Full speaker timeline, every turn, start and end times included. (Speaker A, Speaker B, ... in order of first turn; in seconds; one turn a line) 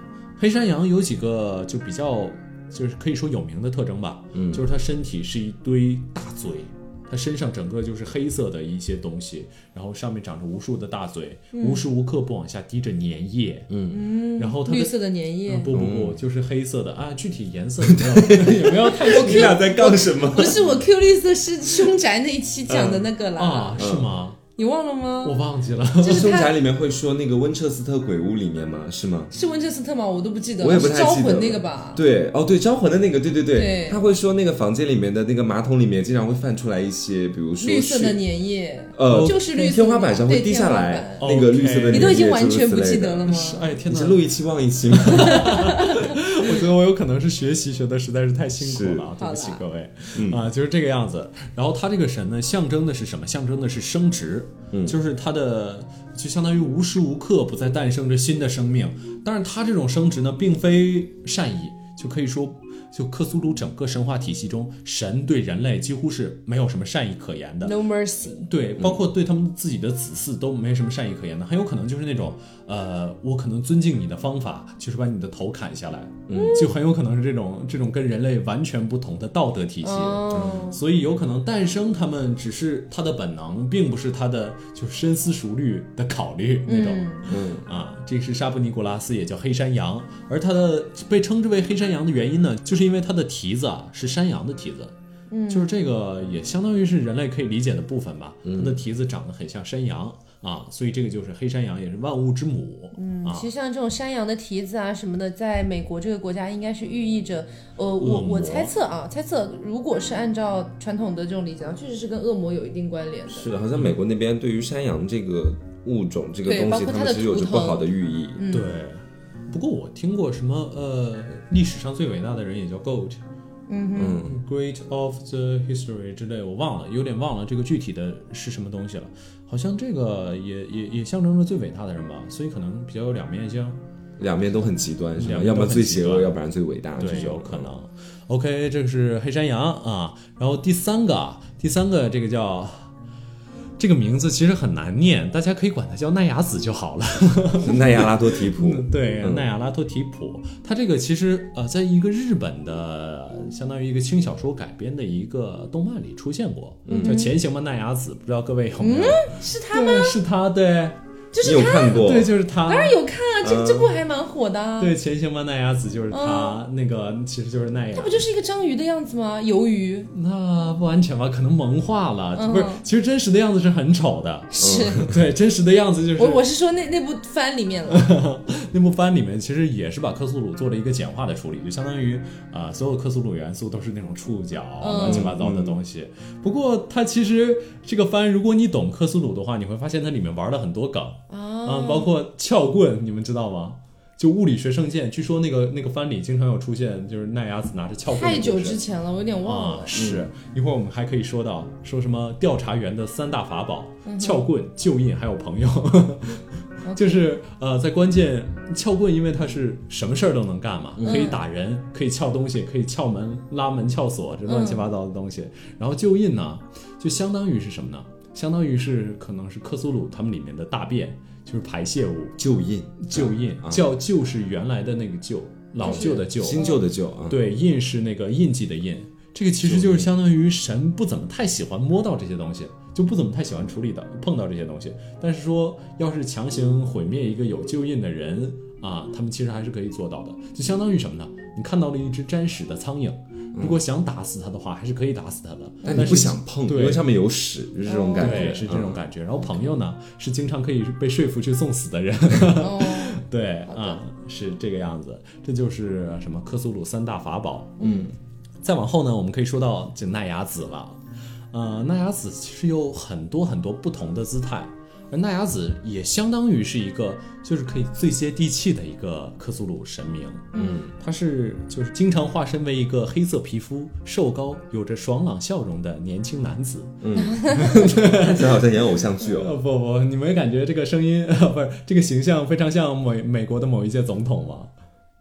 Speaker A: 0.4-13.7
Speaker B: 4.3-4.6
Speaker C: 11.5-11.8
Speaker B: 13.7-14.0
Speaker C: 13.9-15.7
Speaker A: 14.4-14.9
Speaker A: 15.5-19.6
Speaker B: 15.7-16.2
Speaker B: 17.9-20.6
Speaker C: 19.0-23.8
Speaker B: 22.7-23.0
Speaker A: 23.4-24.4
Speaker B: 23.8-24.1
Speaker C: 24.6-25.4
Speaker A: 25.2-26.3
Speaker C: 26.0-26.6
Speaker B: 26.0-29.3
Speaker C: 29.3-32.0
Speaker B: 30.6-38.2
Speaker C: 33.5-34.0
Speaker C: 37.6-41.3
Speaker B: 39.0-43.3
Speaker A: 39.0-39.4
Speaker A: 41.2-42.2
Speaker C: 41.9-43.6
Speaker A: 43.3-44.3
Speaker B: 43.9-45.5
Speaker A: 44.9-67.8
Speaker C: 45.2-46.1
Speaker B: 48.6-49.1
Speaker C: 49.2-49.6
Speaker B: 50.1-50.4
Speaker B: 54.7-55.0
Speaker C: 67.6-68.5
Speaker A: 68.5-94.9
Speaker B: 76.3-76.6
Speaker C: 76.3-76.7
Speaker C: 79.8-80.8
Speaker B: 80.3-80.7
Speaker C: 86.7-87.3
Speaker B: 87.3-87.7
Speaker C: 95.3-95.8
Speaker A: 95.5-103.5
Speaker B: 98.5-98.8
Speaker C: 103.0-113.5
Speaker A: 108.0-108.7
Speaker B: 113.3-118.4
Speaker C: 116.5-118.7
Speaker A: 118.5-123.2
Speaker C: 123.7-124.2
Speaker B: 124.0-124.4
Speaker A: 124.2-133.8
Speaker B: 134.2-137.7
Speaker A: 135.2-136.3
Speaker A: 137.0-142.9
Speaker A: 143.8-161.0
Speaker B: 147.6-149.4
Speaker B: 156.9-157.2
Speaker C: 156.9-157.4
Speaker C: 158.8-160.2
Speaker C: 161.3-165.0
Speaker B: 161.4-162.3
Speaker A: 162.0-163.0
Speaker B: 163.4-163.9
Speaker A: 164.8-168.2
Speaker C: 166.1-166.6
Speaker C: 167.9-170.1
Speaker A: 170.1-176.4
Speaker C: 172.4-172.8
Speaker C: 174.5-175.1
Speaker B: 174.6-175.1
Speaker C: 176.2-178.1
Speaker A: 177.9-198.8
Speaker C: 184.8-185.3
Speaker B: 185.0-185.8
Speaker C: 191.3-192.1
Speaker C: 198.1-200.0
Speaker A: 199.4-222.4
Speaker B: 199.9-200.3
Speaker C: 204.1-204.4
Speaker C: 206.8-207.2
Speaker B: 211.0-211.3
Speaker C: 211.0-211.4
Speaker C: 214.5-214.8
Speaker B: 222.4-223.8
Speaker A: 223.0-226.7
Speaker C: 225.8-226.8
Speaker B: 225.8-227.4
Speaker A: 227.3-247.0
Speaker B: 229.6-230.1
Speaker B: 243.5-243.8
Speaker C: 245.8-246.2
Speaker B: 245.8-249.0
Speaker C: 247.8-248.7
Speaker A: 248.2-257.9
Speaker C: 249.4-249.7
Speaker C: 252.6-254.0
Speaker C: 257.8-258.1
Speaker A: 258.6-261.0
Speaker A: 261.5-278.6
Speaker C: 270.5-270.8
Speaker B: 270.6-270.9
Speaker B: 277.0-279.6
Speaker C: 277.2-277.9
Speaker A: 279.2-284.7